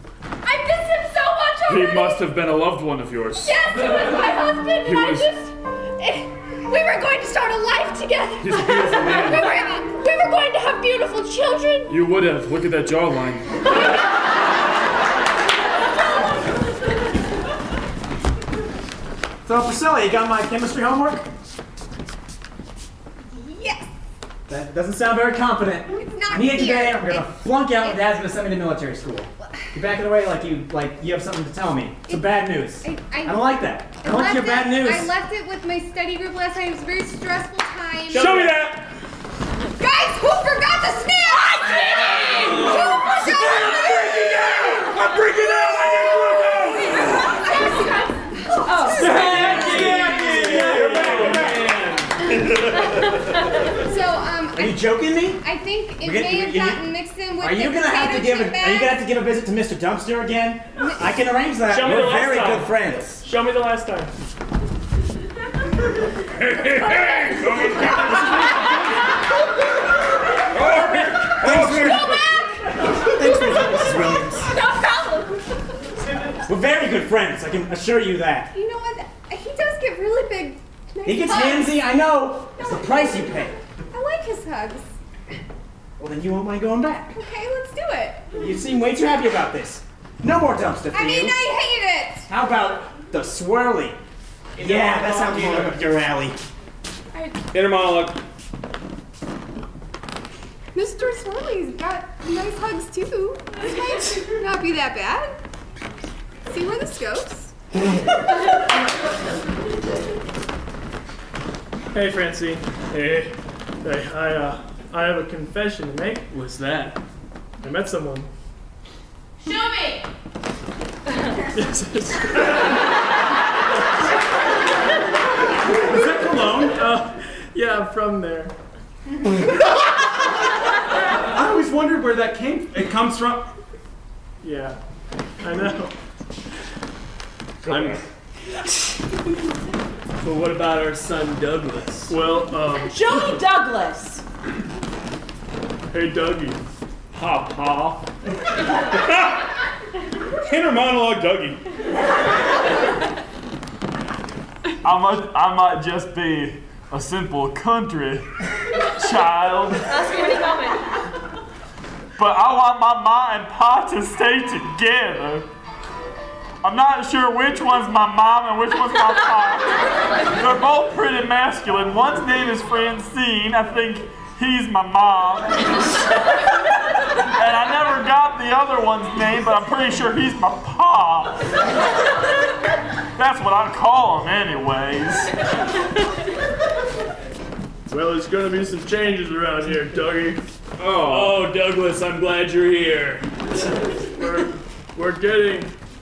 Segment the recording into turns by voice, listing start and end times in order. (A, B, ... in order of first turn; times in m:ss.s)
0:00.4-0:02.2 A
0:01.6-0:03.6 B
0:03.4-0:11.9 A
0:04.8-0:05.3 B
0:08.4-0:09.6 B
0:11.9-0:13.5 B
0:19.4-0:21.2 C
0:23.3-0:23.8 D
0:24.5-0:35.1 C
0:25.9-0:28.0 D
0:32.1-0:38.4 D
0:38.1-0:38.6 E
0:38.1-0:38.5 F
0:38.4-0:38.7 B
0:39.8-0:46.6 D
0:43.2-0:44.1 B
0:44.7-0:47.0 B
0:47.3-0:49.4 D
0:48.6-0:50.4 G
0:49.0-0:51.5 B
0:49.0-0:52.2 E
0:49.0-0:51.6 H
0:50.2-0:51.6 C
0:53.8-0:59.0 D
0:54.5-0:55.4 C
0:56.0-1:03.2 C
1:01.7-1:04.1 F
1:01.8-1:02.2 H
1:06.4-1:08.6 B
1:10.5-1:12.2 H
1:11.3-1:12.2 C
1:11.4-1:13.9 D
1:13.0-1:14.5 C
1:14.4-1:15.4 A
1:16.4-1:18.5 C
1:18.5-1:21.9 D
1:21.0-1:23.5 C
1:22.6-1:23.2 D
1:23.9-1:24.9 D
1:26.0-1:27.2 C
1:27.2-1:28.3 D
1:28.3-1:31.4 C
1:30.9-1:32.2 D
1:32.3-1:34.0 C
1:34.6-1:35.8 E
1:34.6-1:36.4 C
1:37.5-1:38.2 H
1:40.7-1:45.4 D
1:46.5-1:47.5 D
1:51.9-1:53.3 F
1:53.8-1:56.3 F
1:56.3-1:56.9 E
1:57.6-1:58.3 F
1:59.4-2:00.0 A
2:01.5-2:02.6 F
2:05.9-2:06.8 H
2:05.9-2:06.7 C
2:06.7-2:08.5 F
2:11.3-2:13.5 H
2:14.4-2:14.8 F
2:15.4-2:15.9 F
2:17.6-2:18.0 H
2:17.7-2:18.0 B
2:20.2-2:22.1 E
2:22.1-2:23.4 F
2:22.9-2:24.2 G
2:25.9-2:26.6 F
2:27.1-2:28.1 B
2:30.4-2:31.6 H
2:34.8-2:38.3 B
2:39.0-2:39.9 B
2:39.9-2:40.8 A
2:42.2-2:45.5 B
2:46.6-2:55.6 B
2:57.2-3:01.4 B
3:03.2-3:05.3 B
3:07.9-3:10.4 F
3:10.8-3:11.5 B
3:11.1-3:13.2 E
3:14.1-3:15.7 F